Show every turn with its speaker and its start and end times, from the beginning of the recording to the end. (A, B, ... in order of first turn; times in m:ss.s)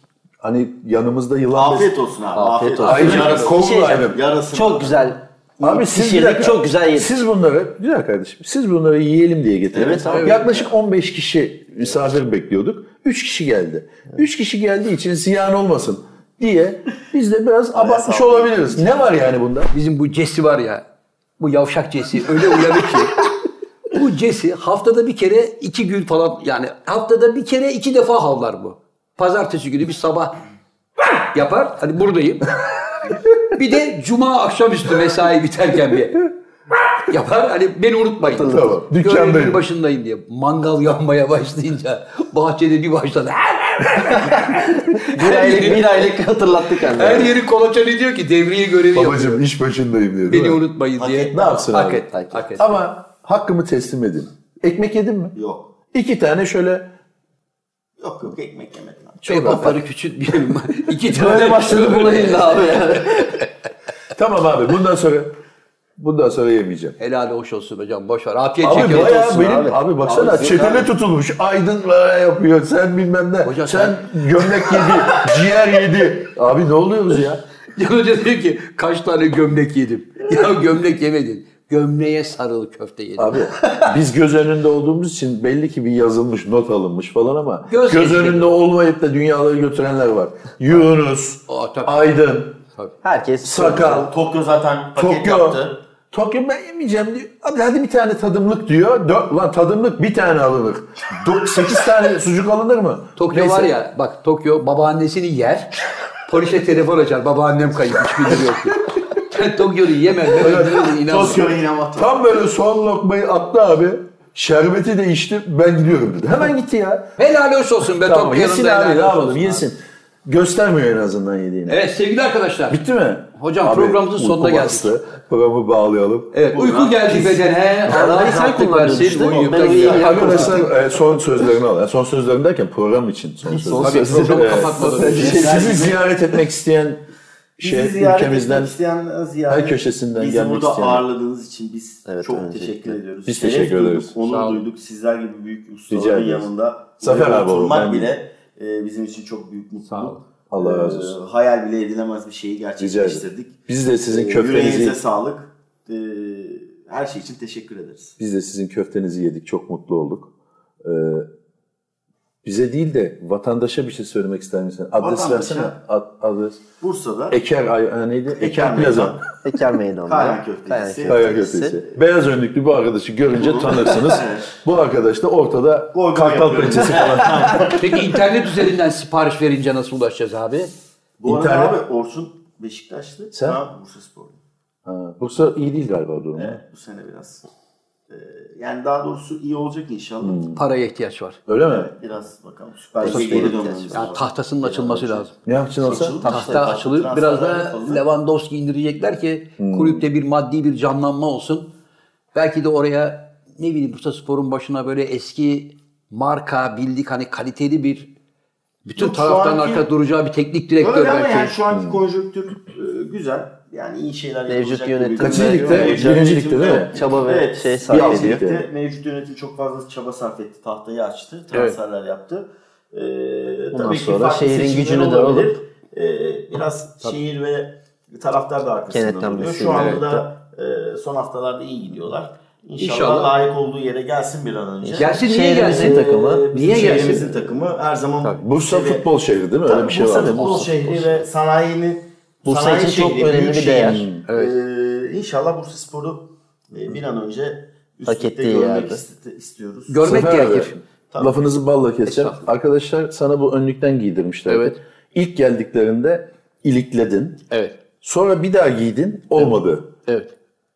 0:00.4-0:01.9 A
0:01.5-0:05.0 B
0:02.4-0:07.2 C
0:02.8-0:03.4 D
0:02.8-0:04.2 A
0:05.6-0:19.7 A
0:09.7-0:10.5 B
0:09.9-0:10.6 C
0:17.7-0:19.1 B
0:19.7-0:20.8 D
0:21.4-0:23.3 D
0:23.9-0:30.4 D
0:31.0-0:36.3 D
0:37.1-0:46.1 D
0:38.2-0:38.8 C
0:38.5-0:39.6 A
0:44.8-0:47.4 C
0:46.8-0:49.4 D
0:48.9-0:50.6 A
0:50.3-0:52.8 D
0:51.0-0:51.7 B
0:51.3-0:55.4 A
0:52.1-0:52.5 C
0:55.4-0:55.8 B
0:55.9-0:56.9 A
0:58.0-0:59.6 B
0:59.2-0:59.8 A
0:59.3-1:03.3 D
1:01.1-1:03.4 C
1:01.2-1:01.8 A
1:04.1-1:05.4 A
1:06.0-1:07.0 A
1:07.0-1:09.8 D
1:08.6-1:17.4 A
1:09.4-1:10.8 C
1:10.0-1:10.8 B
1:13.4-1:15.0 D
1:17.8-1:23.9 D
1:23.2-1:32.6 A
1:27.7-1:28.5 D
1:31.5-1:32.1 D
1:33.0-1:34.1 C
1:33.4-1:34.1 A
1:33.9-1:35.8 B
1:35.0-1:43.7 A
1:43.2-1:51.5 D
1:50.4-1:57.2 A
1:51.0-1:52.2 B
1:57.2-1:59.7 D
1:58.0-2:01.8 A
2:01.7-2:02.8 D
2:02.7-2:06.3 A
2:03.4-2:05.0 D
2:06.3-2:10.6 D
2:06.5-2:07.4 B
2:07.9-2:10.7 C
2:09.5-2:10.7 B
2:09.8-2:17.0 A
2:13.4-2:15.6 D
2:13.8-2:15.5 C
2:15.0-2:16.0 B
2:17.6-2:18.7 A
2:17.6-2:38.2 B
2:19.5-2:21.1 A
2:22.1-2:23.0 C
2:23.3-2:24.1 A
2:24.3-2:24.7 D
2:25.9-2:26.5 A
2:27.0-2:28.1 A
2:29.9-2:30.2 D
2:30.5-2:31.2 A
2:32.8-2:35.0 A
2:38.2-2:40.3 A
2:40.8-2:41.3 A
2:42.4-2:46.6 A
2:45.0-2:45.8 B
2:46.8-2:47.4 B
2:47.3-2:49.2 A
2:48.3-2:49.3 B
2:49.4-2:51.8 C
2:50.1-2:51.4 B
2:51.1-2:57.8 A
2:53.3-2:54.5 B
2:55.9-2:58.2 B
2:57.7-3:00.7 D
3:01.2-3:04.4 B
3:01.3-3:01.8 A
3:03.3-3:03.6 A
3:04.9-3:06.6 A
3:06.4-3:07.5 B
3:08.1-3:10.4 B
3:10.2-3:10.6 A
3:10.6-3:11.4 D
3:11.5-3:11.9 A
3:11.6-3:15.3 B
3:13.0-3:14.1 C
3:13.0-3:13.5 A
3:13.1-3:15.4 D
3:15.4-3:16.2 A
3:15.8-3:18.0 B
3:16.1-3:16.6 C
3:16.2-3:21.7 D
3:19.6-3:20.0 A
3:22.3-3:28.1 D
3:28.8-3:31.6 D
3:29.0-3:29.9 B
3:30.8-3:59.1 B
3:31.7-3:32.0 A
3:34.5-3:36.2 C
3:35.2-3:37.0 A
3:36.9-3:38.4 C
3:37.9-3:38.7 A
3:43.7-3:45.6 C
3:48.9-3:50.2 C
3:49.8-3:50.0 D
3:52.8-3:53.4 D
3:54.8-3:55.8 C
3:55.0-3:57.4 D
3:55.6-3:57.2 A
3:58.4-4:00.7 A
3:59.6-4:10.5 B
4:00.1-4:00.8 D
4:02.4-4:04.1 C
4:03.9-4:04.2 A
4:04.3-4:04.6 D
4:08.1-4:09.0 C
4:09.9-4:10.7 D
4:10.0-4:17.4 A
4:11.1-4:11.4 B
4:12.0-4:12.4 D
4:14.5-4:14.8 D
4:17.5-4:17.8 D
4:18.0-4:19.9 A